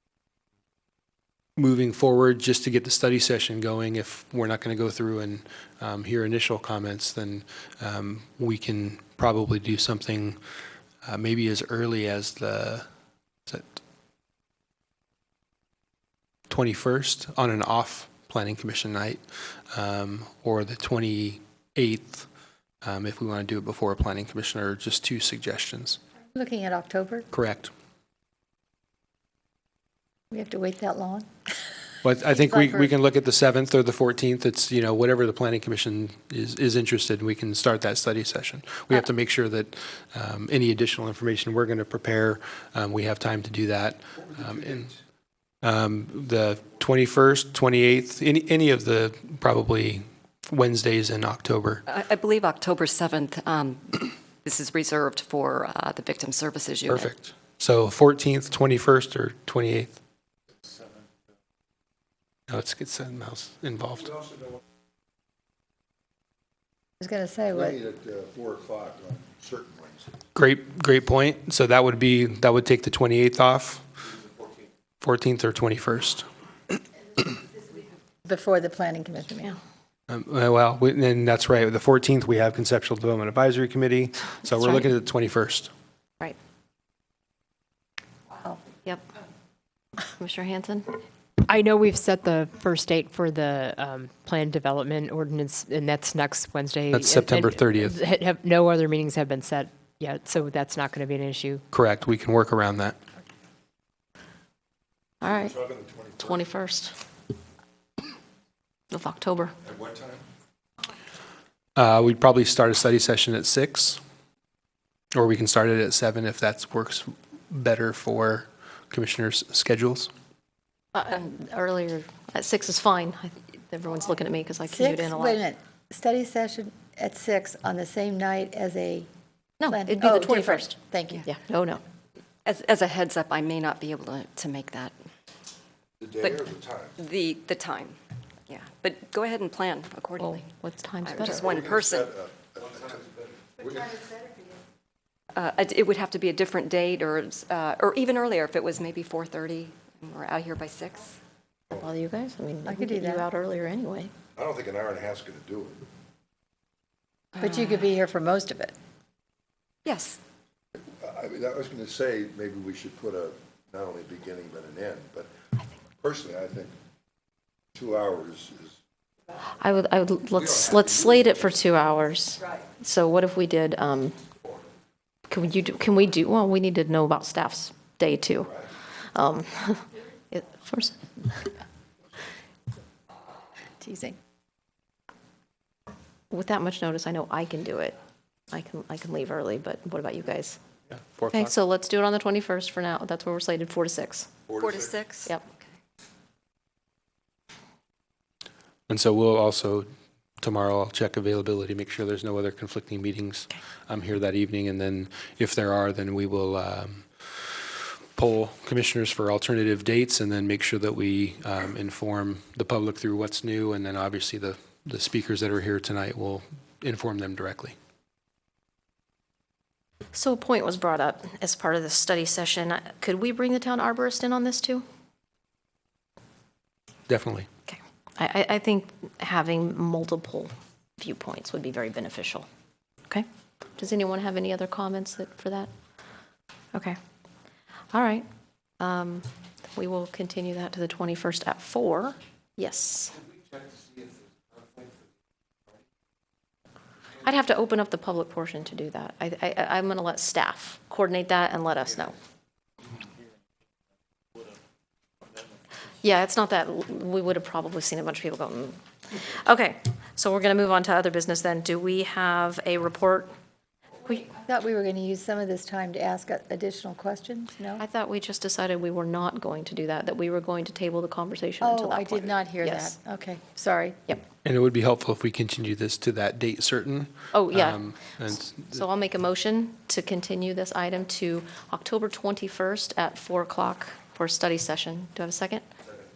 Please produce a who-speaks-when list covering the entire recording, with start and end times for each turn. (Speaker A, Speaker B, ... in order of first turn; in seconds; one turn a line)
Speaker A: 1.6-10.4
Speaker A: 11.0-12.9
Speaker A: 13.5-13.8
Speaker A: 16.5-22.3
Speaker A: 22.8-26.0
Speaker B: 26.3-27.3
Speaker A: 27.3-27.7
Speaker B: 30.3-31.3
Speaker A: 32.0-44.9
Speaker B: 32.3-32.9
Speaker C: 44.3-45.0
Speaker A: 45.6-51.8
Speaker D: 51.9-57.1
Speaker A: 56.9-60.0
Speaker A: 62.5-64.1
Speaker B: 67.0-67.8
Speaker C: 67.5-70.1
Speaker A: 70.3-73.8
Speaker A: 75.0-76.3
Speaker B: 78.2-79.6
Speaker A: 80.1-85.7
Speaker E: 90.1-91.0
Speaker F: 91.5-101.6
Speaker A: 96.9-98.0
Speaker A: 101.7-103.0
Speaker E: 105.2-105.6
Speaker C: 105.2-106.4
Speaker E: 106.2-106.9
Speaker E: 108.9-109.5
Speaker C: 109.7-110.2
Speaker A: 111.8-114.0
Speaker A: 115.1-120.1
Speaker E: 120.9-125.4
Speaker B: 124.6-129.1
Speaker E: 129.6-131.8
Speaker B: 129.7-131.3
Speaker D: 132.4-134.9
Speaker C: 136.0-137.0
Speaker D: 137.0-138.0
Speaker D: 138.5-140.5
Speaker E: 140.2-141.5
Speaker D: 141.0-142.1
Speaker C: 141.2-144.0
Speaker D: 145.3-151.2
Speaker E: 151.7-154.1
Speaker B: 152.6-153.3
Speaker C: 154.4-155.8
Speaker B: 157.4-158.8
Speaker D: 159.8-160.2
Speaker C: 161.0-165.3
Speaker C: 166.0-166.7
Speaker C: 167.8-168.8
Speaker E: 169.6-174.1
Speaker C: 170.4-171.4
Speaker E: 175.3-178.6
Speaker E: 179.1-181.5
Speaker B: 183.8-184.2
Speaker E: 186.3-187.9
Speaker E: 188.5-190.6
Speaker A: 191.0-191.6
Speaker E: 191.3-194.3
Speaker D: 194.6-195.4
Speaker A: 198.9-199.9
Speaker A: 200.4-217.8
Speaker E: 220.1-224.8
Speaker A: 227.1-227.5
Speaker E: 227.7-232.5
Speaker E: 233.1-235.7
Speaker E: 237.9-238.2
Speaker E: 238.8-243.2
Speaker E: 247.2-252.2
Speaker E: 256.0-263.3
Speaker B: 264.2-267.8
Speaker E: 267.8-272.9
Speaker B: 271.6-274.0
Speaker A: 274.4-278.8
Speaker E: 277.3-277.9
Speaker E: 278.5-285.6